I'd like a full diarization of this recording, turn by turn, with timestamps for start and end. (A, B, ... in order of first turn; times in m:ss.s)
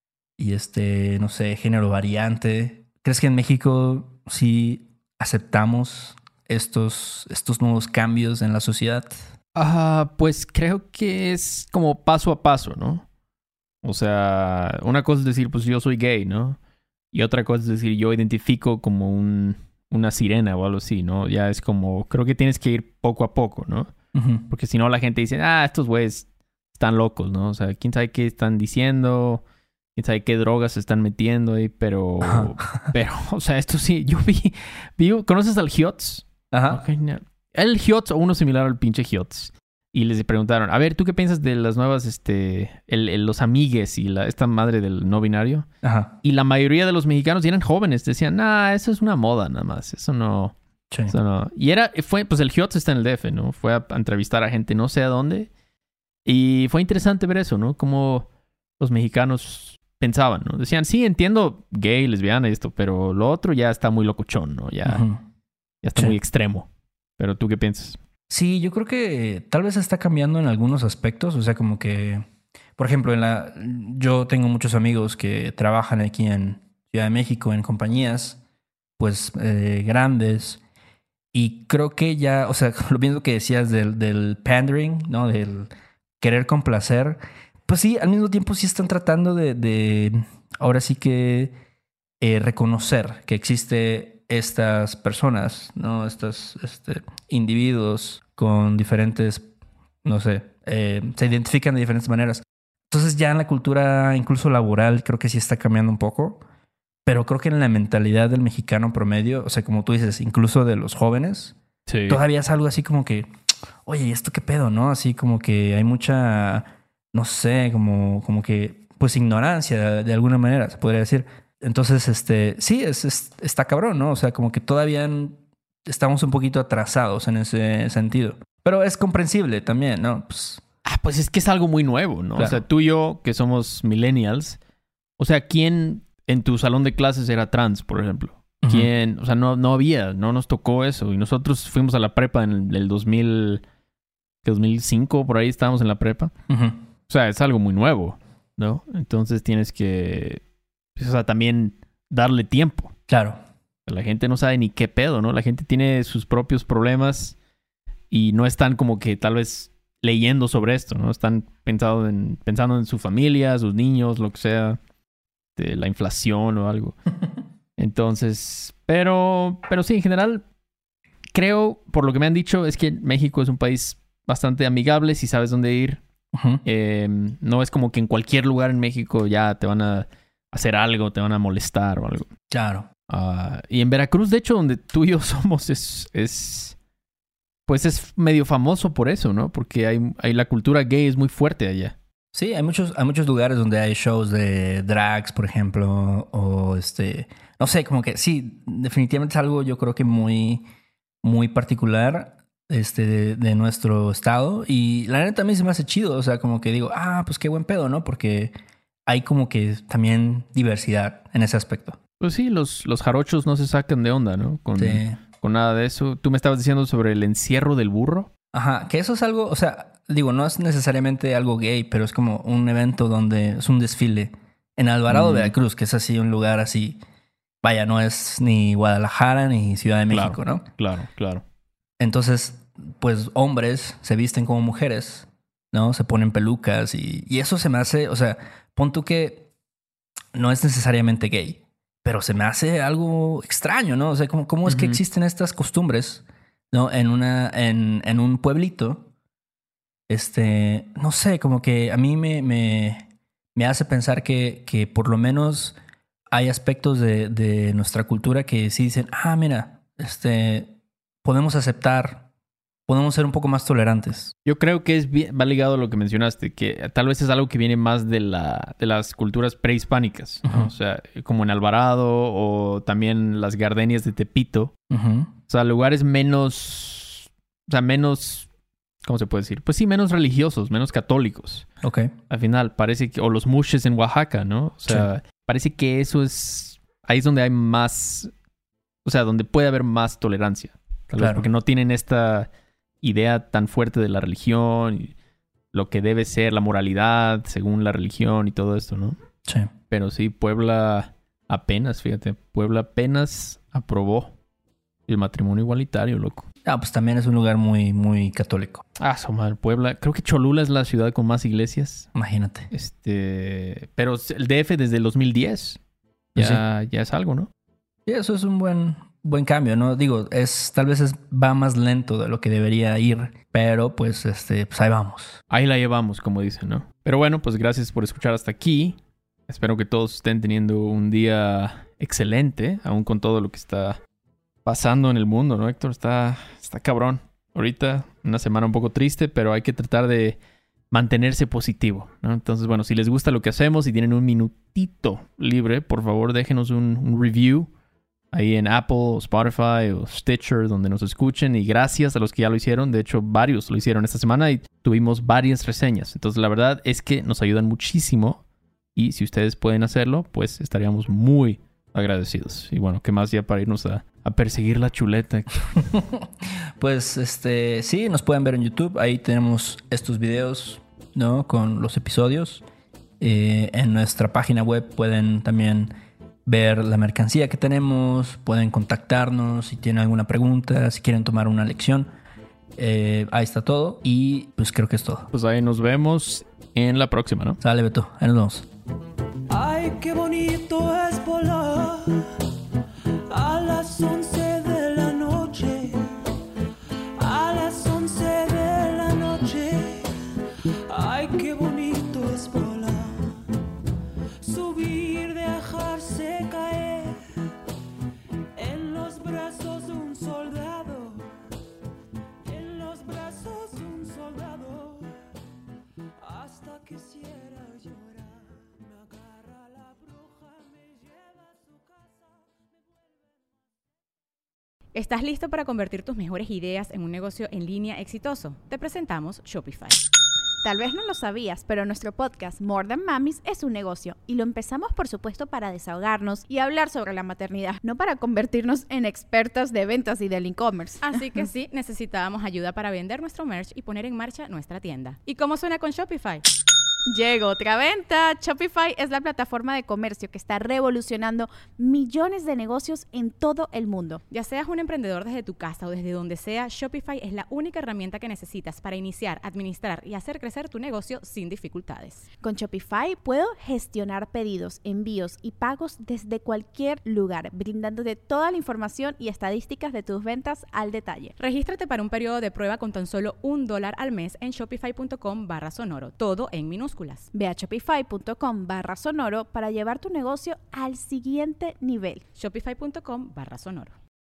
0:00.4-0:09.2 A
0:09.5-0:13.0 B
0:13.8-0:16.6 B
0:17.1-0:23.9 B
0:24.1-0:24.4 A
0:24.5-0:29.4 B
0:30.0-0:45.7 B
0:32.2-0:32.9 A
0:36.5-0:36.8 A
0:45.8-0:46.1 A
0:46.2-0:50.5 B
0:51.1-0:55.5 B
0:56.2-0:58.3 B
0:58.8-1:05.0 B
1:04.8-1:05.2 A
1:05.8-1:06.7 B
1:07.2-1:08.0 B
1:08.3-1:18.4 A
1:19.0-1:20.6 A
1:21.3-1:31.5 A
1:32.2-1:39.5 A
1:40.0-1:46.4 A
1:47.0-1:51.6 A
1:51.9-1:52.2 B
1:52.1-1:53.3 A
1:53.8-2:10.6 A
2:10.8-2:14.6 B
2:12.4-2:12.6 A
2:15.2-2:23.6 B
2:18.6-2:18.9 A
2:24.4-2:26.3 B
2:26.5-2:26.8 A
2:27.1-2:30.4 B
2:31.0-2:32.9 B
2:33.1-2:33.4 A
2:33.9-2:37.4 B
2:38.1-2:44.8 B
2:45.6-2:47.0 B
2:47.8-2:50.4 B
2:51.3-2:56.0 B
2:56.3-2:56.6 A
2:56.6-3:02.3 B
3:02.5-3:02.9 A
3:03.1-3:06.8 B
3:07.7-3:12.0 B
3:12.3-3:20.6 A
3:21.2-3:28.5 A
3:29.1-3:32.0 A
3:32.2-3:38.3 B
3:34.8-3:35.2 A
3:38.5-3:47.0 A
3:45.1-3:45.5 B
3:47.6-3:50.6 A
3:50.1-3:51.4 B
3:52.0-3:59.5 A
4:00.3-4:09.1 A
4:04.6-4:05.0 B
4:10.1-4:15.8 A
4:16.3-4:20.7 A
4:21.2-4:22.3 A
4:22.9-4:24.3 A
4:24.4-4:34.7 B
4:30.4-4:30.7 A
4:34.9-4:35.3 A
4:35.5-4:38.5 B
4:39.0-4:41.7 B
4:41.8-4:42.1 A
4:42.3-4:48.3 B
4:49.0-4:52.5 B
4:51.2-4:51.5 A
4:53.0-4:55.1 B
4:55.7-4:59.2 B
4:59.9-5:04.3 B
5:05.1-5:06.5 B
5:06.6-5:08.8 A
5:09.0-5:12.1 B
5:12.1-5:12.7 A
5:12.7-5:15.8 B
5:16.3-5:16.6 A
5:16.3-5:17.5 B
5:18.0-5:25.4 A
5:25.5-5:29.0 B
5:29.5-5:34.0 B
5:34.6-5:40.4 B
5:40.9-5:47.7 B
5:48.3-5:58.4 B
5:59.0-6:05.8 B
6:05.9-6:12.6 A
6:13.2-6:15.9 A
6:16.4-6:22.1 A
6:22.8-6:25.3 A
6:25.3-6:27.6 B
6:27.6-6:28.7 A
6:29.5-6:32.3 C
6:33.3-6:36.1 C
6:37.2-6:40.1 C
6:40.9-6:43.3 C
6:44.4-6:47.2 C
6:48.6-6:51.3 C
6:52.4-6:55.1 C
6:56.2-7:03.4 C
7:04.9-7:10.0 D
7:10.6-7:21.2 E
7:21.0-7:26.4 D
7:27.1-7:34.2 E
7:34.3-7:42.3 D
7:42.4-7:51.3 E
7:51.4-7:57.3 D
7:57.3-8:02.2 E
8:02.4-8:03.9 D